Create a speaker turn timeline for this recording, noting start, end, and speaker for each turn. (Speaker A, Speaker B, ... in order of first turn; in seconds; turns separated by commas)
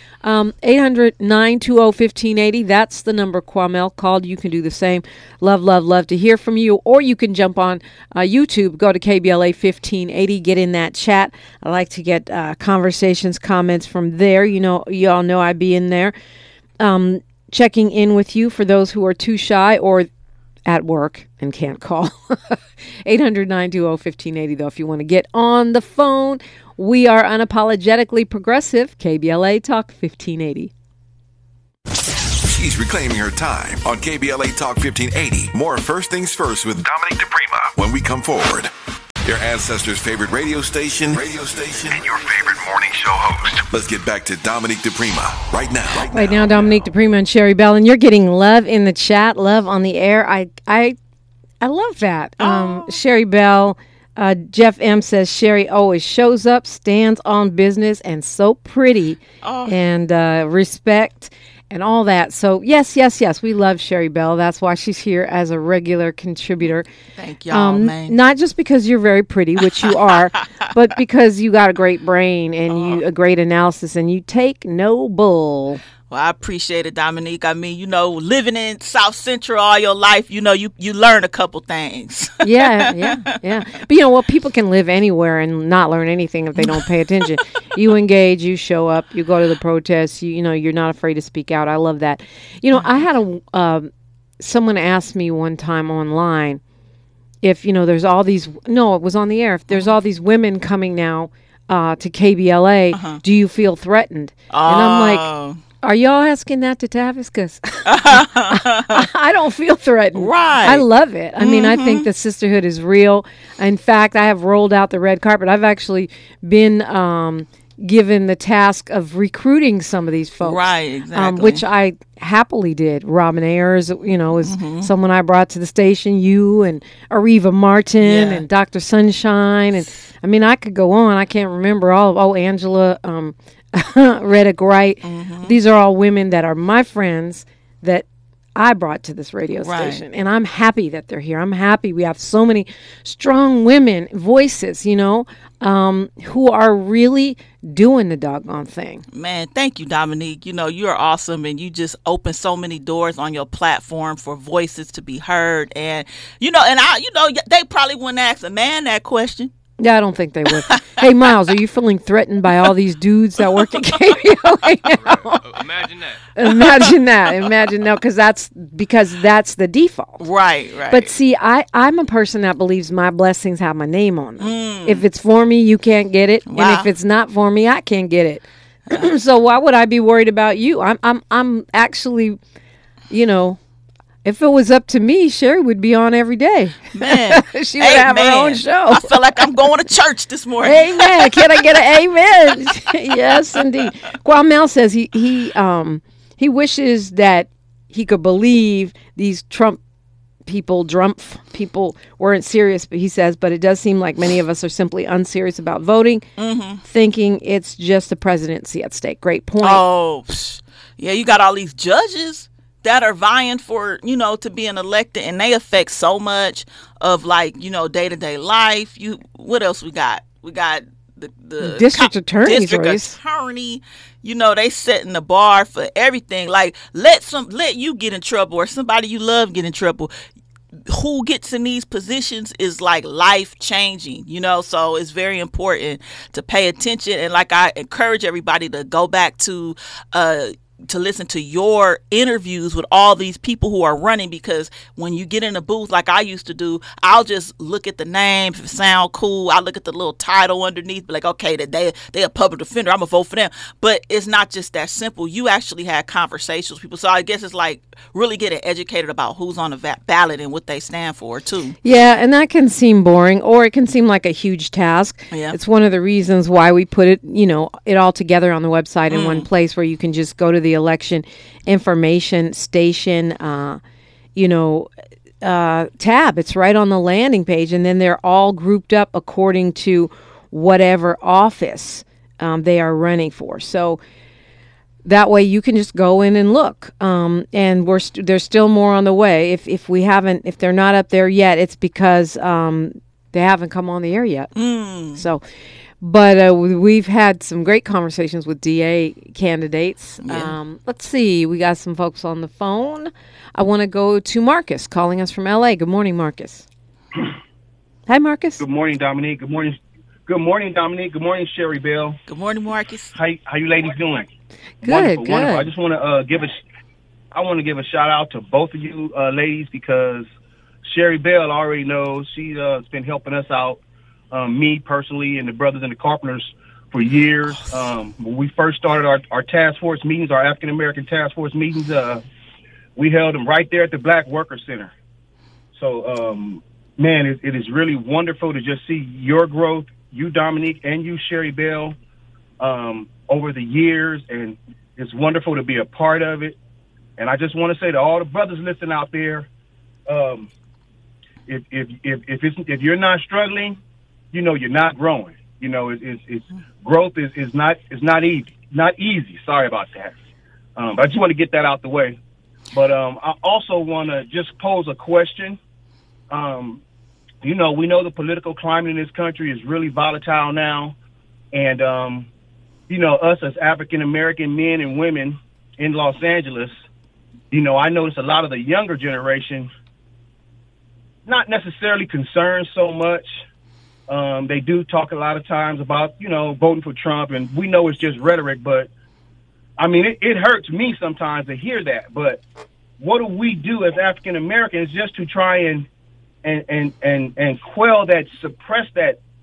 Speaker A: 0.2-16.1, Speaker A: 16.8-20.1, Speaker A: 20.7-30.7, Speaker B: 32.4-38.7, Speaker B: 39.2-46.7, Speaker A: 46.1-51.0, Speaker A: 51.6-66.9, Speaker C: 52.4-53.0, Speaker C: 59.4-59.8, Speaker C: 67.2-68.2, Speaker A: 67.5-75.8, Speaker C: 72.7-73.0, Speaker C: 76.1-83.2, Speaker A: 82.4-96.6, Speaker A: 97.4-105.3, Speaker C: 102.9-103.2, Speaker C: 104.5-105.6, Speaker A: 105.8-138.1, Speaker C: 107.9-109.1, Speaker C: 110.2-110.8, Speaker C: 111.4-112.1, Speaker C: 120.4-121.6, Speaker C: 124.4-124.9, Speaker C: 128.0-128.4, Speaker C: 135.0-135.6, Speaker A: 138.6-149.0, Speaker C: 139.6-140.0, Speaker C: 149.1-159.5, Speaker A: 159.8-165.4, Speaker C: 160.6-161.1, Speaker C: 163.4-164.2, Speaker A: 166.3-170.2, Speaker C: 170.2-171.1, Speaker A: 170.9-182.4, Speaker C: 174.4-175.1, Speaker C: 176.5-176.9, Speaker A: 183.1-183.6, Speaker A: 184.2-189.4, Speaker C: 186.9-191.8, Speaker A: 190.6-199.8, Speaker A: 200.5-206.3, Speaker C: 206.4-206.8, Speaker A: 206.8-209.8, Speaker C: 209.6-230.1, Speaker A: 221.6-223.2, Speaker C: 230.9-261.8, Speaker A: 261.8-273.8, Speaker C: 265.3-265.6, Speaker C: 269.1-269.5, Speaker A: 274.4-274.9, Speaker A: 275.4-284.0, Speaker A: 285.1-294.5, Speaker C: 294.6-295.2, Speaker A: 295.1-295.4, Speaker A: 296.0-306.7, Speaker C: 300.2-300.5, Speaker A: 308.1-308.6, Speaker D: 308.6-312.2, Speaker C: 312.3-313.1, Speaker D: 313.1-314.3, Speaker A: 314.8-315.7, Speaker D: 314.8-316.6, Speaker D: 317.3-320.3, Speaker D: 320.9-323.8, Speaker D: 324.3-332.2, Speaker D: 333.0-334.9, Speaker D: 335.8-342.0, Speaker D: 342.6-346.6, Speaker D: 347.2-349.5, Speaker D: 350.1-350.5, Speaker D: 351.5-353.8, Speaker D: 354.3-360.1, Speaker D: 360.8-362.2, Speaker D: 362.7-365.6, Speaker D: 366.3-366.8, Speaker D: 367.4-371.0, Speaker D: 371.5-372.3, Speaker D: 372.9-376.8, Speaker D: 377.5-379.7, Speaker D: 381.3-383.3, Speaker D: 384.1-388.9, Speaker D: 389.8-392.4, Speaker D: 393.0-395.9, Speaker D: 396.4-399.2